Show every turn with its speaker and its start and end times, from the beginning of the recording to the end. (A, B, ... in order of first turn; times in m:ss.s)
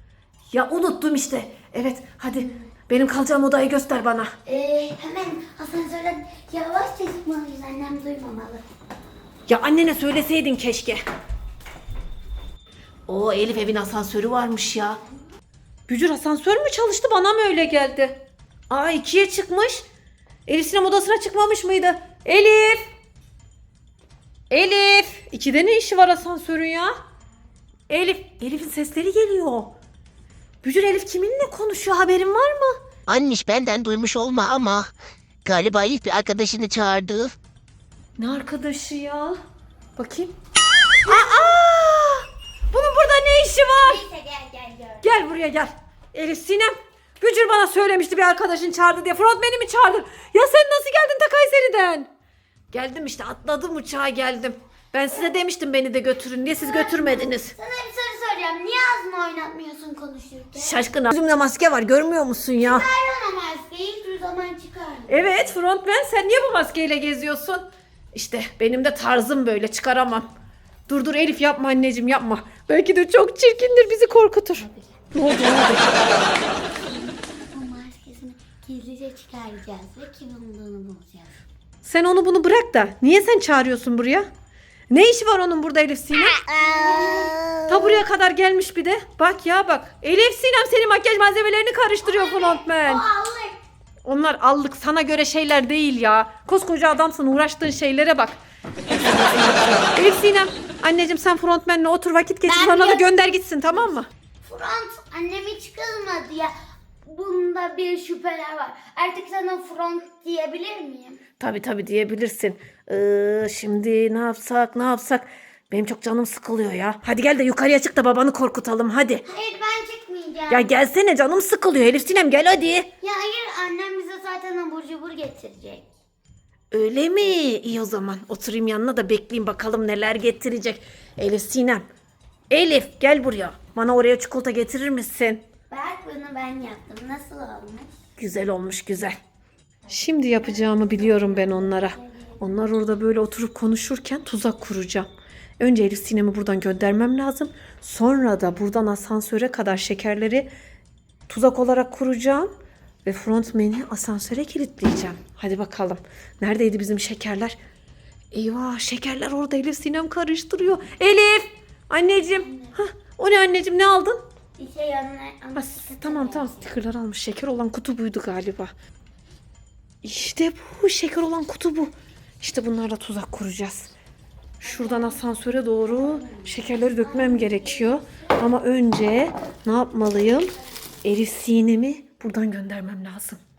0:00.5-0:04.3 A
0:04.4-0:08.6 B
0:09.5-0:11.0 A
0:13.1-0:15.0 A
0:15.9-0:19.8 A
0:20.4-0:22.8 A
0:24.5-0:26.9 A
0:27.9-0:29.7 A
0:30.6-0:32.8 A
0:33.1-0:34.9 C
0:35.4-0:37.3 C
0:38.2-0:39.4 A
0:40.0-0:40.3 A
0:41.0-0:44.0 A
0:43.8-0:45.0 B
0:45.0-0:52.1 A
0:52.7-0:57.5 A
0:56.4-1:00.8 B
1:00.6-1:02.8 A
1:02.6-1:05.3 B
1:05.1-1:10.3 A
1:10.9-1:15.9 A
1:16.8-1:21.3 B
1:21.8-1:24.3 A
1:24.9-1:26.4 A
1:26.5-1:28.0 B
1:27.7-1:33.0 A
1:32.0-1:33.6 B
1:34.0-1:38.4 A
1:38.9-1:44.1 A
1:42.5-1:43.2 B
1:44.4-1:46.5 B
1:47.0-1:51.2 B
1:51.4-1:59.2 A
1:59.2-2:00.7 B
2:00.5-2:02.9 A
2:03.0-2:05.8 B
2:06.7-2:11.8 A
2:12.5-2:15.4 A
2:15.7-2:17.9 B
2:18.2-2:19.2 A
2:19.9-2:22.4 B
2:19.9-2:25.1 A
2:25.6-2:30.5 A
2:31.3-2:32.5 A
2:33.0-2:37.6 A
2:38.3-2:44.2 A
2:42.4-2:42.7 B
2:44.6-2:46.7 B
2:45.6-2:48.7 A
2:50.0-2:53.9 A
2:54.6-3:03.4 A
2:54.6-2:55.2 B
2:55.8-2:58.2 B